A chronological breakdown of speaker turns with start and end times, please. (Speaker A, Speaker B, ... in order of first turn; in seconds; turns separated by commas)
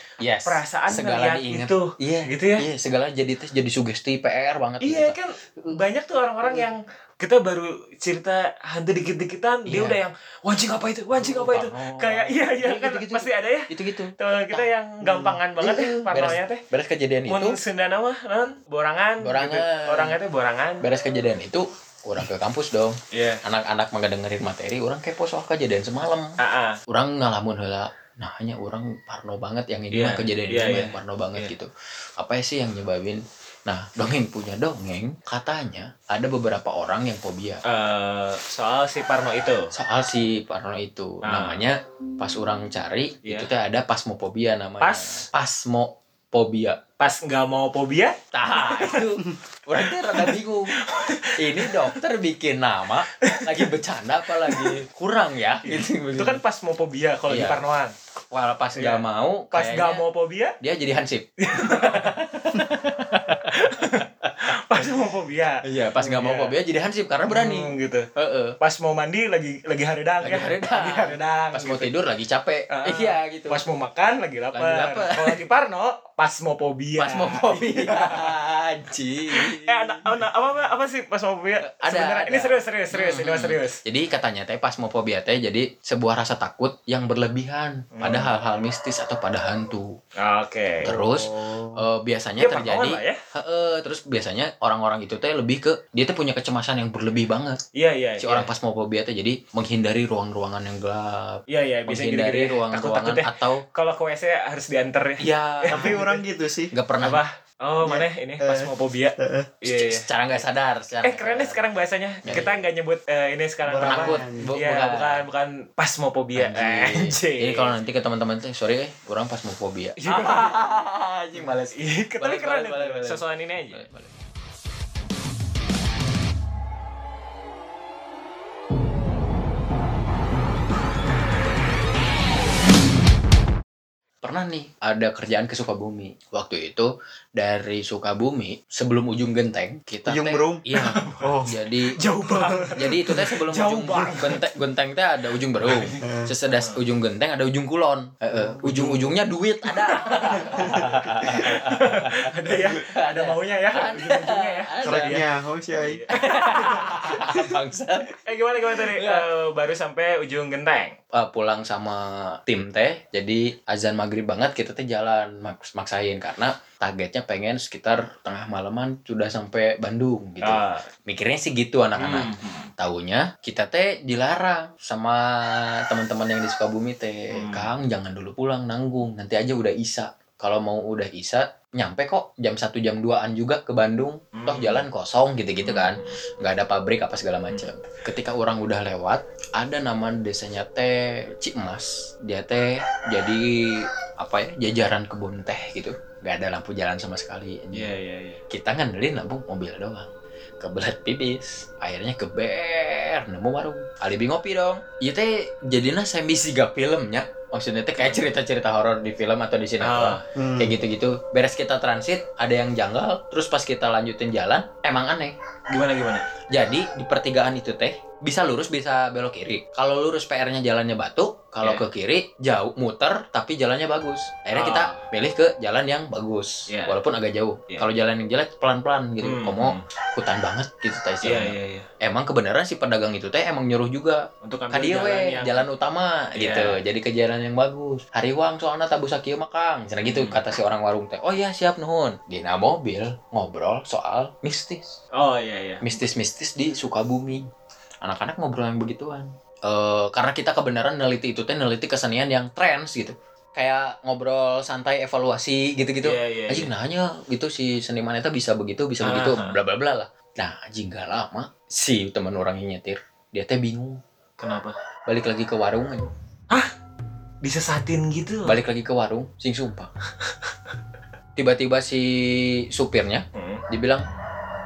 Speaker A: 0.2-5.8, Speaker B: 0.5-2.7, Speaker B: 4.8-16.6, Speaker A: 9.7-10.0, Speaker A: 11.2-17.6, Speaker B: 17.3-20.9, Speaker A: 19.2-20.2, Speaker A: 20.8-26.4, Speaker B: 23.1-23.4, Speaker B: 26.4-26.8, Speaker A: 26.9-37.6, Speaker B: 29.9-31.5, Speaker B: 37.6-39.7, Speaker A: 39.7-46.8, Speaker B: 41.2-41.6, Speaker B: 43.2-43.5, Speaker B: 44.8-45.2, Speaker B: 47.0-49.1, Speaker A: 48.3-50.7, Speaker B: 49.9-51.9, Speaker A: 51.4-56.4, Speaker B: 53.2-53.7, Speaker B: 54.5-54.7, Speaker B: 55.6-57.9, Speaker A: 57.3-57.6, Speaker A: 58.3-60.0, Speaker B: 58.8-60.6, Speaker A: 60.6-64.9, Speaker B: 61.4-62.7, Speaker B: 63.3-66.5, Speaker A: 65.6-68.6, Speaker B: 67.3-68.1, Speaker B: 68.6-71.9, Speaker A: 70.2-73.6, Speaker B: 72.7-78.3, Speaker A: 74.5-75.4, Speaker A: 77.0-80.1, Speaker B: 79.3-83.8, Speaker A: 81.7-90.0, Speaker B: 88.0-88.3, Speaker B: 90.2-90.9, Speaker C: 90.8-91.9, Speaker A: 90.8-97.6, Speaker B: 92.4-93.2, Speaker B: 97.8-98.5, Speaker A: 98.2-103.6, Speaker B: 101.5-106.2, Speaker A: 105.2-106.0, Speaker C: 105.7-106.7, Speaker A: 106.7-107.2, Speaker B: 107.0-110.1, Speaker C: 107.8-109.5, Speaker A: 109.7-111.6, Speaker B: 111.0-117.7, Speaker A: 112.2-112.6, Speaker C: 113.7-114.5, Speaker A: 113.8-115.2, Speaker A: 116.4-124.1, Speaker B: 120.0-120.6, Speaker B: 121.7-123.8, Speaker A: 134.2-142.0, Speaker C: 140.1-140.7, Speaker B: 140.7-144.4, Speaker C: 141.2-141.6, Speaker C: 142.4-142.7, Speaker A: 142.8-155.2, Speaker B: 145.6-146.8, Speaker C: 146.0-146.3, Speaker C: 148.6-149.1, Speaker B: 149.7-155.2, Speaker C: 150.4-150.8, Speaker C: 154.8-156.1, Speaker B: 155.8-157.3, Speaker A: 156.1-159.3, Speaker C: 157.2-157.5, Speaker B: 158.2-161.0, Speaker A: 161.1-197.9, Speaker B: 170.4-170.9, Speaker B: 172.0-172.7, Speaker B: 177.3-177.7, Speaker B: 184.3-184.8, Speaker B: 185.6-186.2, Speaker B: 197.7-198.4, Speaker A: 198.5-215.3, Speaker B: 208.0-208.2, Speaker B: 209.8-210.2, Speaker C: 210.3-210.8, Speaker B: 215.7-216.2, Speaker A: 216.5-245.0, Speaker B: 224.5-225.1, Speaker B: 226.7-227.0, Speaker B: 229.2-229.8, Speaker B: 231.2-231.9, Speaker B: 234.4-235.7, Speaker B: 236.4-236.8, Speaker B: 240.1-240.4, Speaker B: 245.2-245.9, Speaker A: 245.8-247.5, Speaker A: 248.0-264.0, Speaker B: 256.0-256.7, Speaker B: 259.0-259.6, Speaker B: 264.4-264.8, Speaker A: 265.1-266.1, Speaker B: 267.4-268.6, Speaker A: 268.4-269.9, Speaker B: 270.2-270.5, Speaker A: 271.4-274.1, Speaker B: 273.4-273.6